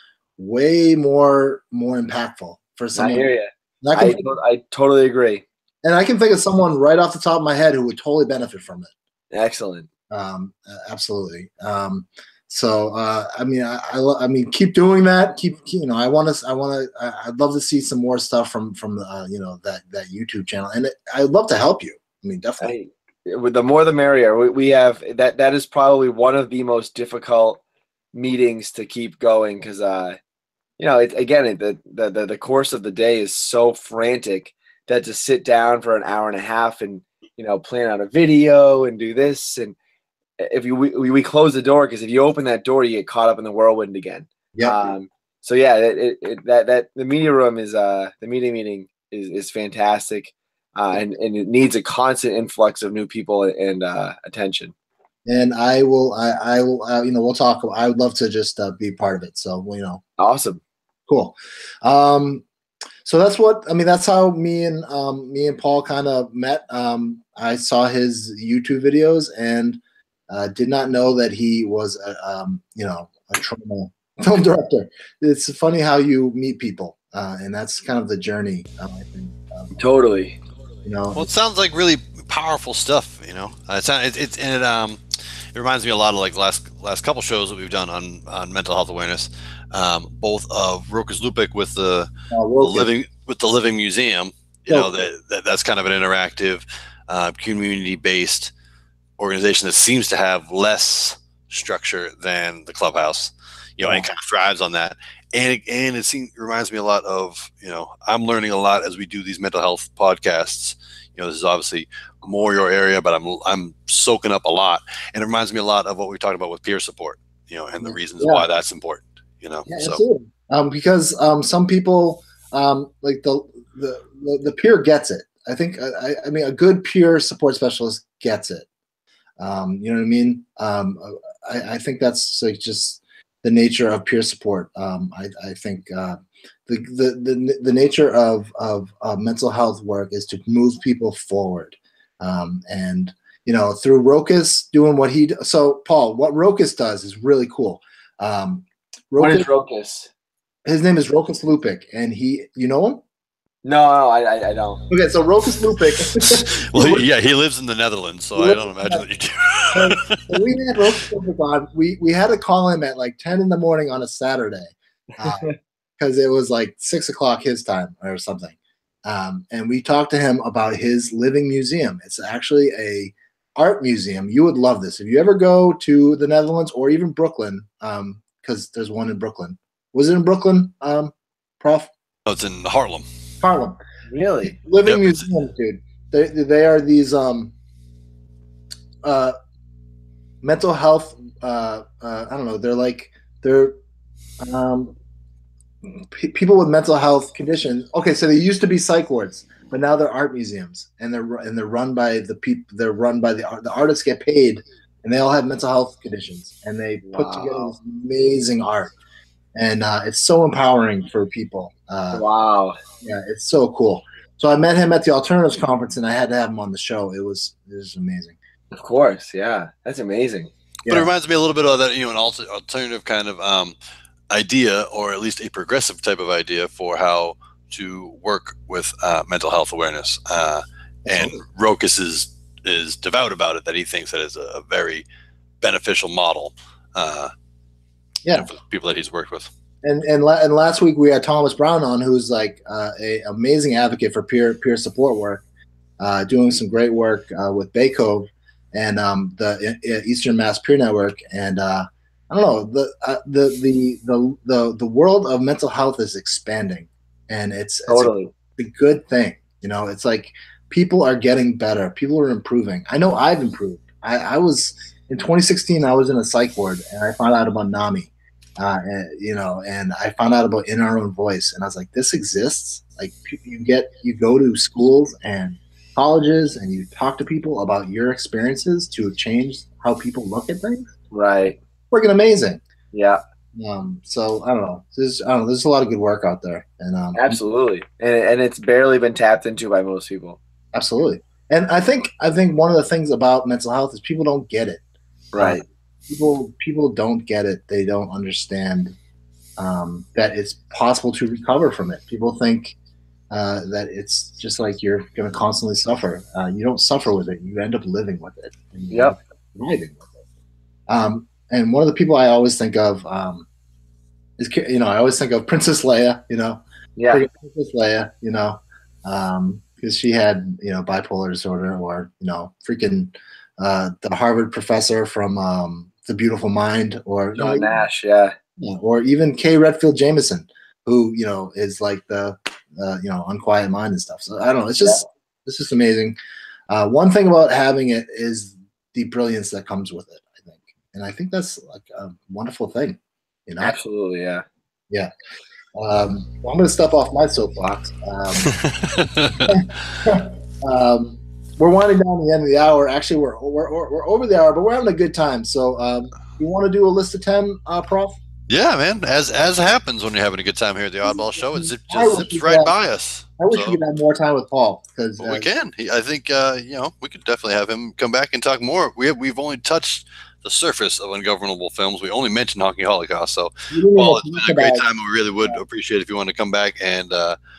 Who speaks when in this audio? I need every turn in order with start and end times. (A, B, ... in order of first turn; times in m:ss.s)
0:00.4-0:03.3 A
0:02.9-0:05.4 B
0:03.8-0:04.3 A
0:05.8-0:08.9 A
0:09.3-0:09.9 B
0:10.1-0:22.7 A
0:22.6-0:27.6 B
0:28.1-0:30.2 B
0:30.8-0:39.8 B
0:40.4-0:54.7 B
0:55.3-1:00.0 A
1:00.2-1:00.6 B
1:01.1-1:02.4 A
1:03.0-1:19.7 A
1:19.8-1:20.4 B
1:20.9-1:21.3 A
1:21.1-1:25.0 C
1:25.5-1:32.1 C
1:32.3-1:32.9 A
1:32.6-1:38.5 C
1:39.2-2:00.0 C
1:57.8-1:58.4 A
1:59.7-2:08.7 A
2:09.4-2:29.5 A
2:29.2-2:30.1 B
2:30.6-2:33.0 A
2:33.6-2:34.8 B
2:34.9-2:37.0 A
2:36.3-2:40.2 C
2:38.4-2:39.0 A
2:39.7-3:01.9 A
3:02.3-3:03.0 C
3:03.4-3:03.8 A
3:04.1-3:04.6 B
3:04.4-3:07.5 A
3:09.0-3:09.3 A
3:10.4-3:13.8 A
3:14.4-3:15.0 A
3:15.8-3:28.9 A
3:27.0-3:27.7 B
3:29.6-3:32.2 A
3:32.1-3:32.8 B
3:33.0-3:38.4 A
3:38.7-3:40.5 B
3:40.9-3:43.7 C
3:44.3-3:55.0 C
3:51.0-3:51.4 A
3:55.6-3:57.3 C
3:58.2-3:58.5 A
3:58.3-3:59.5 C
3:59.8-4:05.4 A
4:06.0-4:40.9 A
4:17.9-4:18.3 B
4:41.1-4:41.6 B
4:41.9-4:42.6 A
4:42.9-4:43.2 B
4:43.6-4:47.4 A
4:47.1-4:50.4 B
4:50.7-4:54.8 A
4:55.3-4:55.6 B
4:55.4-4:58.9 A
4:59.6-5:02.8 A
5:03.3-5:10.0 A
5:08.9-5:09.2 B
5:10.9-5:13.4 A
5:14.4-5:27.7 A
5:17.0-5:17.2 B
5:27.4-5:28.4 B
5:28.6-5:36.2 A
5:36.7-5:43.8 A
5:43.6-5:44.4 B
5:45.8-5:48.6 A
5:48.5-5:49.6 C
5:49.5-5:58.2 A
5:58.5-6:03.8 C
6:01.6-6:02.7 A
6:03.4-6:05.5 A
6:05.2-6:17.4 C
6:13.7-6:14.8 A